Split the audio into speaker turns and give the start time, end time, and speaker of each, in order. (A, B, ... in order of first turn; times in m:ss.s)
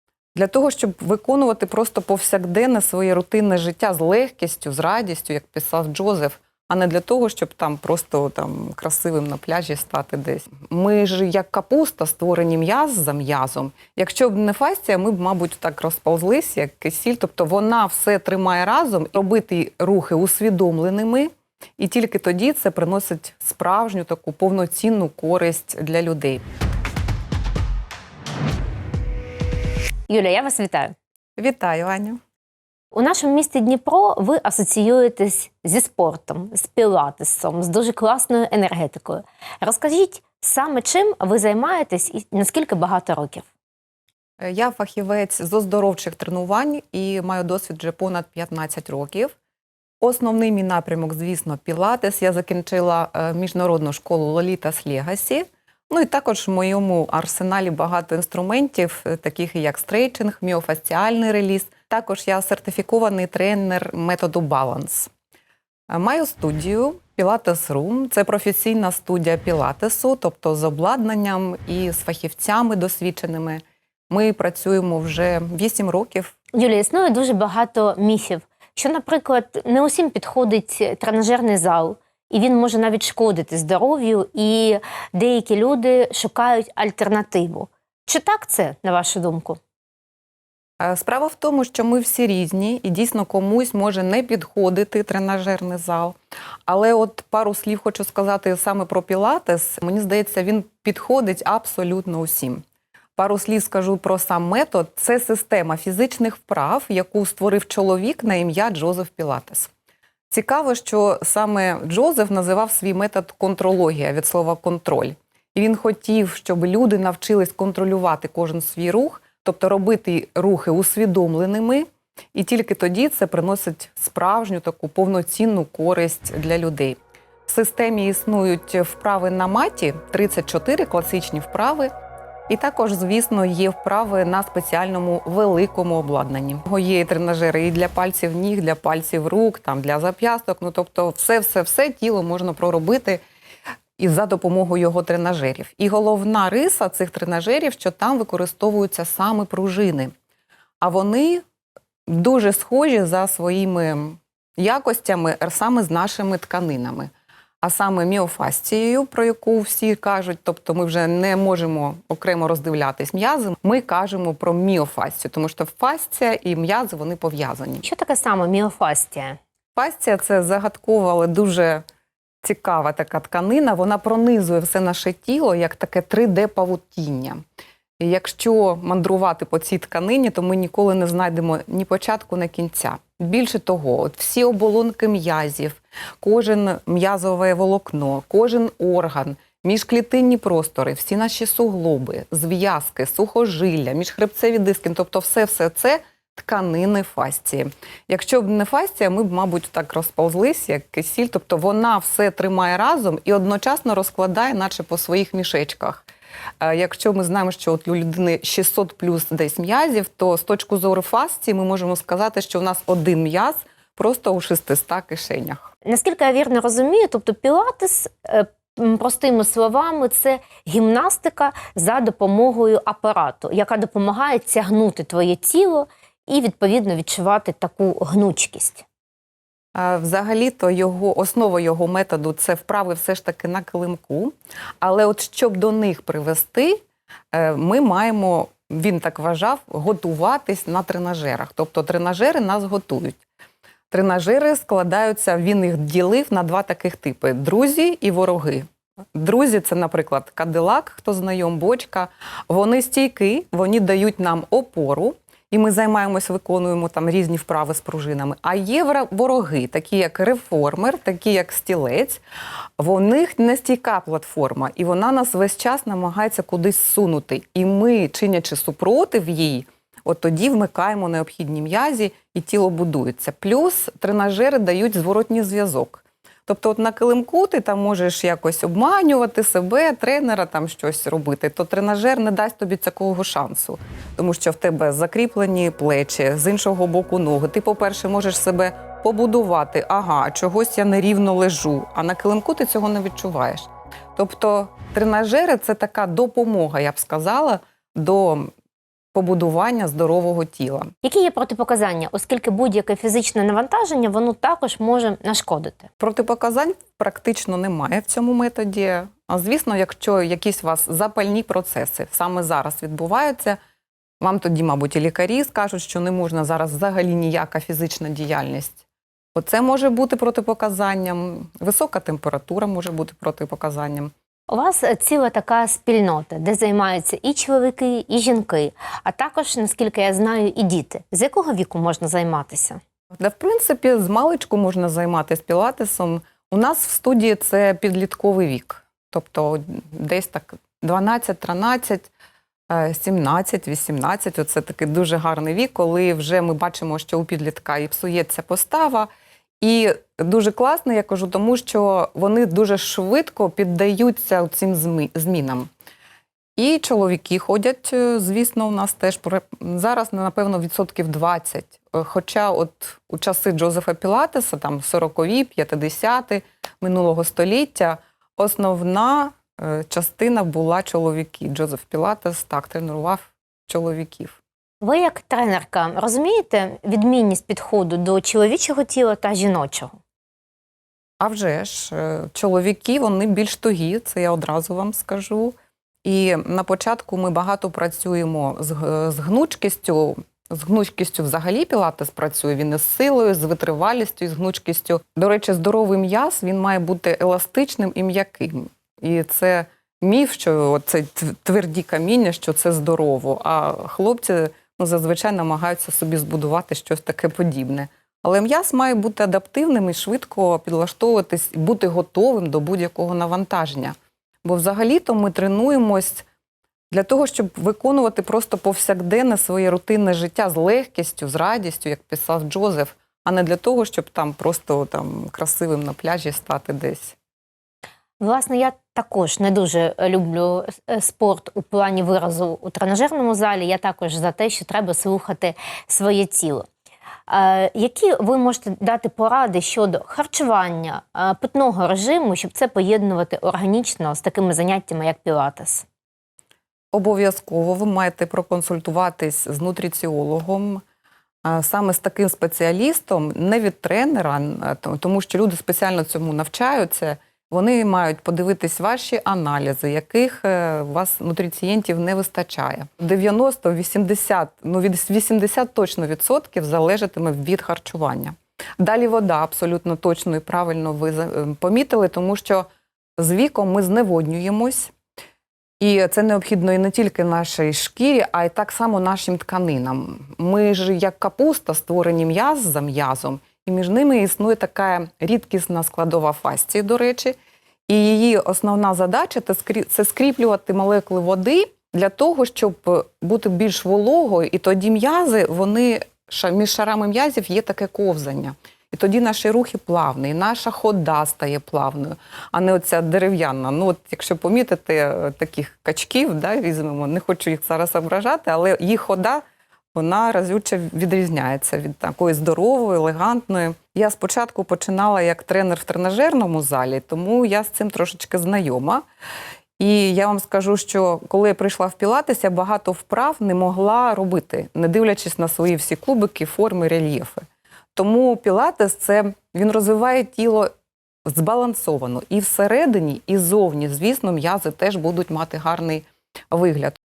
0:00.3-0:26.4 A
0:30.1-0:30.9 B
0:31.4-0:32.2 A
0:32.9-0:43.5 B
0:44.4-0:49.3 A
0:50.0-1:05.1 A
1:05.9-1:16.3 A
1:16.5-1:29.6 B
1:30.8-1:36.2 A
1:36.7-1:42.6 A
1:43.2-1:49.7 A
1:50.3-2:11.9 A
2:12.5-2:23.2 A
2:24.0-2:30.1 A
2:30.8-2:31.4 A
2:32.1-2:37.1 A
2:37.6-2:47.8 A
2:47.8-2:49.4 B
2:49.8-2:51.8 A
2:52.4-2:57.4 A
2:58.0-3:26.0 A
3:26.6-3:35.7 A
3:35.8-3:48.8 B
3:49.7-3:56.8 A
3:57.3-4:03.2 A
4:03.9-4:22.2 A
4:22.8-4:58.5 A
4:59.1-5:00.9 A
5:01.0-5:05.9 B
5:06.0-5:13.6 A
5:14.2-5:18.8 A
5:19.3-5:24.1 A
5:24.5-5:32.8 B
5:33.2-5:42.1 A
5:42.7-5:49.1 A
5:49.6-5:55.7 A
5:56.6-6:14.4 A
6:14.8-6:19.9 B
6:21.2-6:56.3 A
6:56.9-7:07.2 A
7:08.2-7:16.6 B
7:17.3-7:25.8 B
7:26.9-7:30.8 A
7:31.4-7:52.6 A
7:53.2-7:54.9 A
7:55.8-8:07.4 A
8:07.9-8:29.4 A
8:29.9-8:39.0 A
8:39.8-8:47.4 A
8:47.9-8:50.7 A
8:51.2-8:57.0 A